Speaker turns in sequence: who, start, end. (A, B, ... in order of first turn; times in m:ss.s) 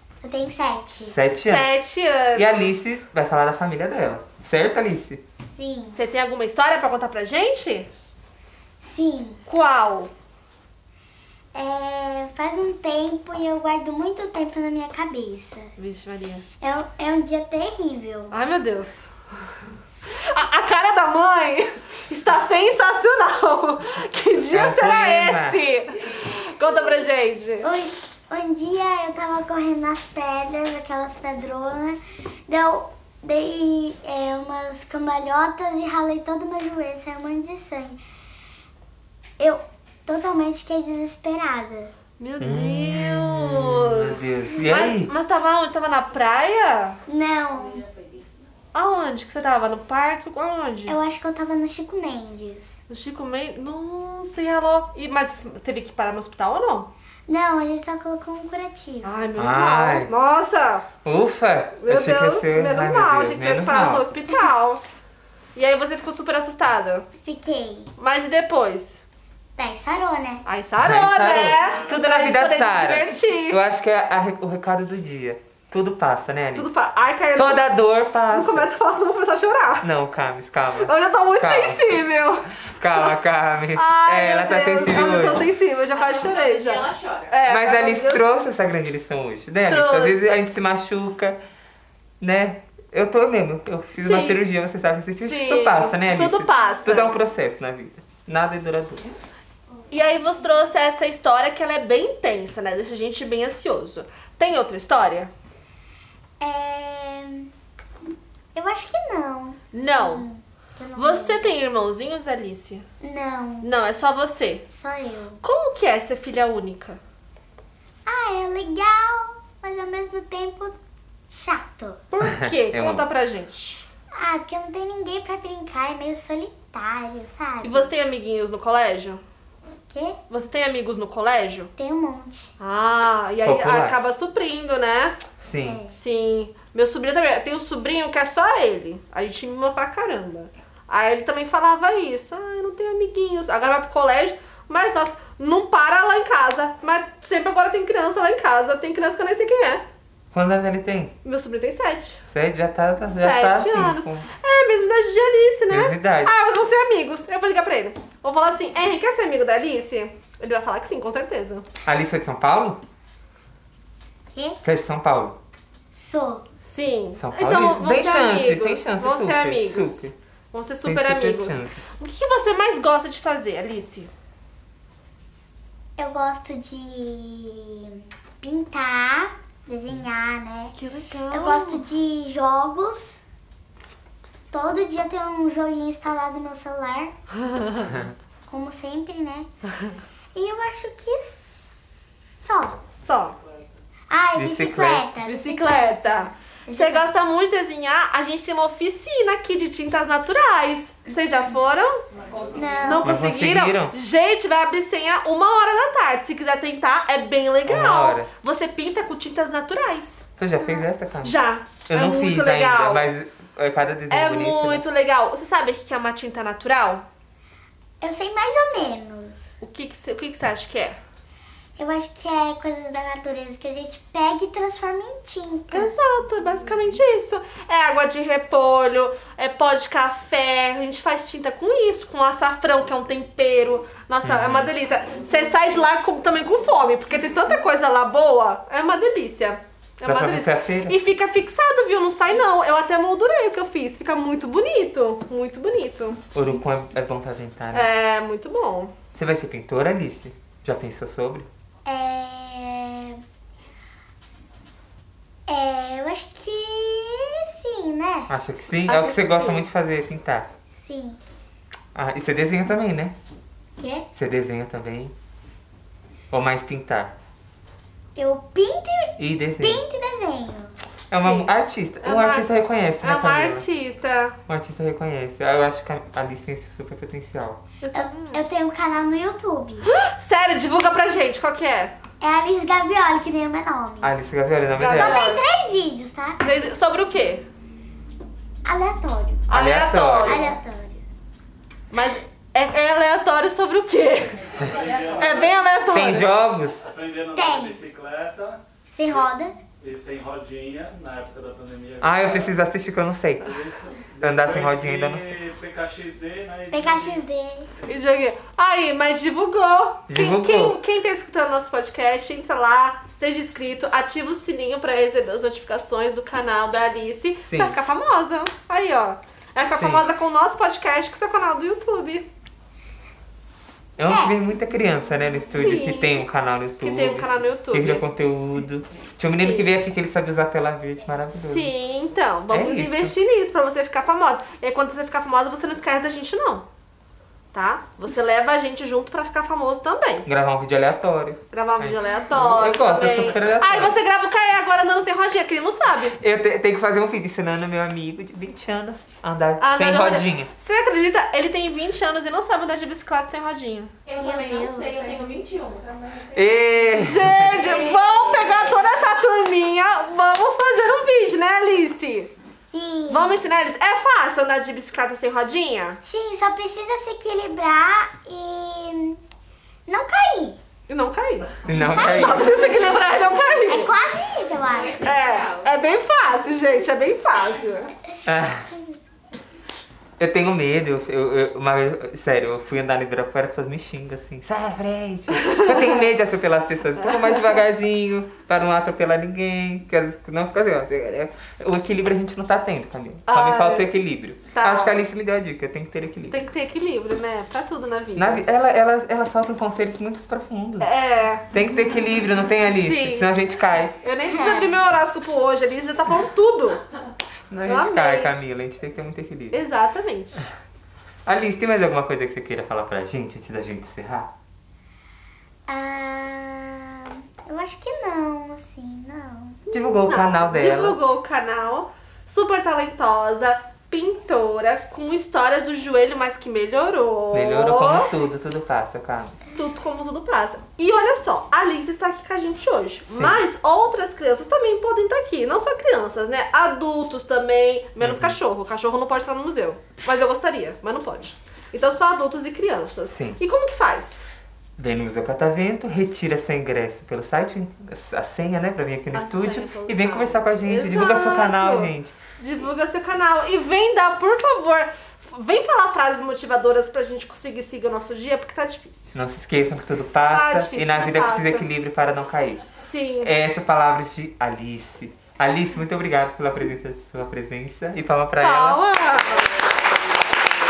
0:00.2-0:01.2 A
0:01.1-0:01.7 B
0:01.4-0:02.5 C
0:02.4-0:05.2 B
0:05.6-0:06.0 A
0:05.9-0:07.9 C
0:08.8-0:09.4 A
0:09.5-0:10.1 C
0:11.5-0:15.7 A
0:15.8-0:16.4 C
0:16.6-0:18.4 A
0:18.3-0:19.1 C
0:20.1-0:27.7 C
0:24.5-0:25.6 B
0:27.6-0:38.0 A
0:39.4-0:41.9 A
0:42.2-0:47.0 C
0:42.4-0:45.1 B
0:47.1-0:47.9 A
0:48.7-0:51.0 C
0:50.9-0:52.7 A
0:52.9-0:56.9 C
0:57.3-0:59.2 A
0:59.0-1:00.9 C
0:59.4-1:00.1 B
1:01.0-1:04.1 B
1:01.8-1:04.8 C
1:05.6-1:07.1 C
1:07.2-1:07.9 A
1:08.0-1:09.0 C
1:09.6-1:10.5 A
1:10.5-1:13.6 C
1:10.8-1:16.7 B
1:16.6-1:17.8 C
1:17.4-1:18.7 B
1:18.3-1:19.9 C
1:19.8-1:22.0 B
1:20.8-1:23.2 C
1:22.8-1:25.5 B
1:23.7-1:28.4 C
1:26.5-1:27.1 D
1:27.5-1:31.4 B
1:29.7-1:30.2 C
1:32.2-1:39.1 B
1:34.0-1:34.4 C
1:35.2-1:37.1 C
1:39.9-1:40.3 A
1:39.9-1:45.3 C
1:46.4-1:47.5 A
1:48.6-1:51.5 A
1:49.7-1:50.2 C
1:51.0-1:52.8 C
1:53.0-1:53.7 A
1:53.6-1:54.6 C
1:54.7-1:55.4 A
1:55.4-1:57.0 C
1:58.1-2:00.8 A
2:01.3-2:02.0 A
2:02.1-2:03.9 C
2:02.2-2:03.1 B
2:04.2-2:07.9 A
2:07.6-2:09.2 C
2:09.9-2:10.2 A
2:10.3-2:11.7 C
2:11.8-2:12.5 A
2:12.6-2:15.2 C
2:13.4-2:14.0 B
2:15.4-2:15.8 B
2:15.6-2:16.0 A
2:15.9-2:29.8 C
2:30.3-2:31.1 B
2:31.2-2:32.2 C
2:32.3-2:34.3 B
2:33.1-2:41.7 C
2:35.7-2:36.3 B
2:41.8-2:42.8 B
2:44.3-2:44.6 A
2:44.6-2:45.4 B
2:45.9-2:46.4 A
2:46.6-2:54.1 C
2:47.2-2:50.2 B
2:50.8-2:51.9 B
2:56.0-3:00.8 A
3:00.8-3:01.8 C
3:01.3-3:03.2 A
3:04.5-3:07.1 A
3:07.5-3:07.8 C
3:08.5-3:09.5 A
3:10.4-3:11.8 A
3:12.4-3:12.8 A
3:13.0-3:13.4 C
3:14.1-3:17.1 A
3:14.4-3:15.0 B
3:15.2-3:22.0 C
3:22.5-3:23.2 A
3:22.8-3:30.2 C
3:23.0-3:24.0 B
3:27.7-3:28.3 B
3:30.4-3:31.4 B
3:30.6-3:30.9 A
3:31.2-3:33.1 C
3:31.9-3:34.8 B
3:34.1-3:37.0 C
3:38.0-3:39.5 A
3:39.6-3:41.0 C
3:41.8-3:45.9 A
3:45.7-4:06.2 C
3:54.2-3:54.7 B
4:00.0-4:01.0 B
4:06.3-4:07.9 B
4:07.7-4:08.9 C
4:09.2-4:11.5 B
4:11.9-4:13.2 A
4:15.5-4:18.3 A
4:18.3-4:20.5 B
4:18.9-4:19.7 C
4:20.8-4:21.2 A
4:22.0-4:23.2 B
4:23.8-4:24.1 A
4:24.2-4:25.1 B
4:26.3-4:27.1 B
4:28.2-4:30.8 A
4:29.2-4:29.8 B
4:31.1-4:33.6 B
4:31.2-4:31.5 C
4:32.0-4:32.5 C
4:33.0-4:34.4 C
4:34.5-4:37.6 B
4:37.8-4:38.4 C
4:37.9-4:39.9 A
4:39.9-4:41.9 C
4:42.2-4:44.1 A
4:44.0-4:45.2 B
4:44.8-4:45.4 C
4:44.9-4:46.5 A
4:46.4-4:47.5 C
4:48.7-4:49.5 A
4:49.5-4:50.6 C
4:49.5-4:50.5 B
4:50.2-4:51.0 A
4:51.9-4:54.5 C
4:54.6-4:55.5 E
4:55.2-4:56.3 C
4:55.9-4:56.9 B
4:56.9-4:58.6 E
4:57.3-4:57.8 A
4:58.9-4:59.6 A
4:59.8-5:02.7 E
5:02.0-5:03.6 B
5:03.4-5:07.2 E
5:04.2-5:05.4 B
5:06.7-5:07.7 A
5:07.8-5:22.3 C
5:10.1-5:10.8 B
5:17.4-5:17.8 B
5:19.7-5:20.1 B
5:24.0-5:31.7 B
5:24.1-5:24.4 A
5:25.5-5:26.2 C
5:26.8-5:28.0 C
5:29.4-5:29.7 C
5:31.4-5:36.7 C
5:32.5-5:33.2 B
5:37.5-5:40.3 C
5:40.2-5:44.0 B
5:41.5-5:46.2 C
5:46.2-5:50.5 B
5:49.6-5:54.0 C
5:54.1-5:56.3 D
5:54.2-5:55.3 A
5:56.3-5:57.8 B
5:56.9-6:02.3 C
5:57.8-5:58.0 D
6:02.7-6:03.4 A
6:03.1-6:06.0 C
6:06.0-6:09.2 A
6:09.9-6:10.6 A
6:10.9-6:13.9 C
6:11.6-6:12.5 B
6:11.8-6:15.1 A
6:14.8-6:15.6 D
6:15.0-6:17.9 C
6:18.3-6:18.7 B
6:18.3-6:19.0 A
6:20.2-6:36.4 B
6:25.3-6:26.1 C
6:27.0-6:27.5 C
6:33.3-6:33.9 C
6:34.5-6:35.0 C
6:36.3-6:38.4 C
6:38.2-6:40.9 B
6:40.8-6:41.4 C
6:41.5-6:44.0 B
6:42.7-6:43.3 C
6:44.0-6:46.8 C
6:44.3-6:44.8 A
6:47.5-6:49.6 B
6:47.6-6:48.3 C
6:49.5-6:50.5 C
6:51.3-6:54.3 B
6:55.7-6:59.6 A
6:59.7-7:01.0 B
7:00.0-7:08.1 C
7:07.3-7:09.4 B
7:09.5-7:24.2 C
7:13.1-7:13.4 B
7:18.0-7:18.4 B
7:23.1-7:23.4 B
7:24.8-7:32.2 B
7:29.1-7:39.1 C
7:39.1-7:42.7 B
7:40.3-7:41.7 C
7:42.8-7:43.3 C
7:43.2-7:48.8 B
7:48.4-7:49.5 C